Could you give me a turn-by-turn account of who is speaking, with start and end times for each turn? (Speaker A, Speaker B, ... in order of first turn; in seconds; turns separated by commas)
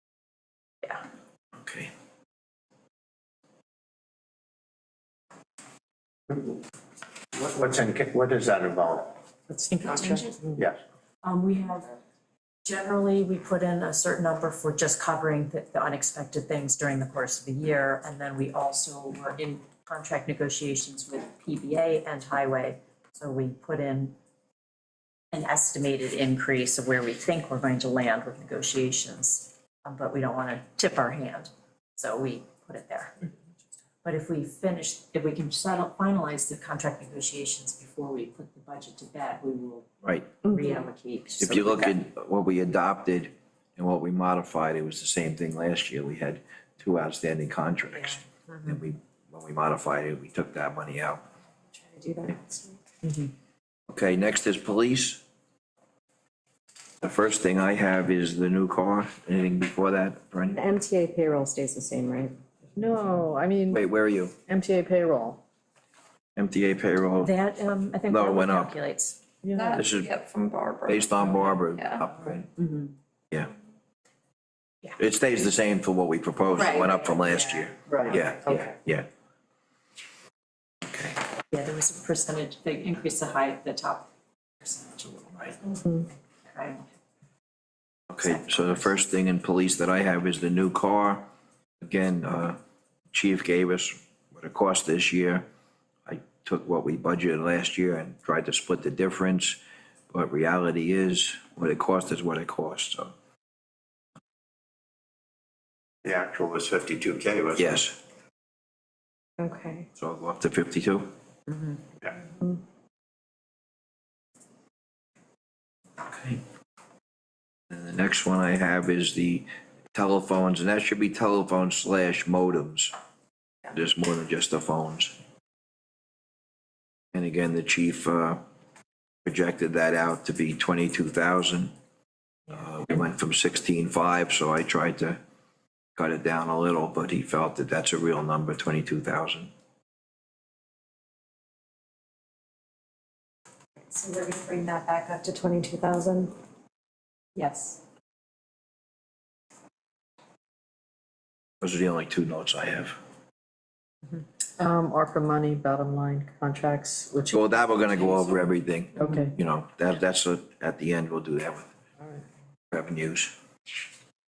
Speaker A: 1.6-1.9, Speaker B: 7.4-9.1, Speaker C: 9.5-10.6, Speaker D: 9.9-10.1, Speaker D: 11.2-11.9, Speaker D: 12.7-24.2, Speaker D: 25.3-33.3, Speaker D: 34.0-39.9, Speaker A: 40.0-40.4, Speaker D: 40.4-42.0, Speaker E: 40.5-40.8, Speaker A: 41.4-51.2, Speaker D: 48.0-48.7, Speaker E: 51.7-52.8, Speaker D: 53.0-53.3, Speaker A: 53.9-55.2, Speaker A: 57.0-60.6, Speaker E: 60.5-63.2, Speaker C: 62.8-63.8, Speaker A: 63.7-64.3, Speaker C: 64.5-65.4, Speaker A: 66.4-67.3, Speaker D: 67.2-69.2, Speaker A: 68.1-68.8, Speaker C: 69.4-69.8, Speaker A: 69.7-70.2, Speaker A: 70.9-72.5, Speaker D: 72.6-72.9, Speaker A: 75.0-79.1, Speaker D: 76.8-78.6, Speaker C: 77.9-78.7, Speaker D: 81.5-84.1, Speaker D: 84.6-85.8, Speaker D: 86.5-86.9, Speaker A: 88.1-91.3, Speaker D: 88.2-89.0, Speaker A: 91.8-92.6, Speaker A: 93.1-95.5, Speaker A: 96.1-99.6, Speaker A: 100.1-103.1, Speaker B: 106.0-107.4, Speaker A: 107.6-108.0, Speaker E: 109.4-109.9, Speaker A: 110.0-111.1, Speaker A: 117.7-122.9, Speaker A: 123.7-125.2, Speaker A: 127.1-128.4, Speaker A: 129.2-131.7, Speaker A: 132.5-135.2, Speaker A: 136.0-139.5, Speaker E: 143.9-146.3, Speaker E: 147.4-147.8, Speaker A: 151.6-153.0, Speaker C: 154.6-157.4, Speaker A: 157.3-161.7, Speaker C: 159.0-159.4, Speaker A: 162.7-163.3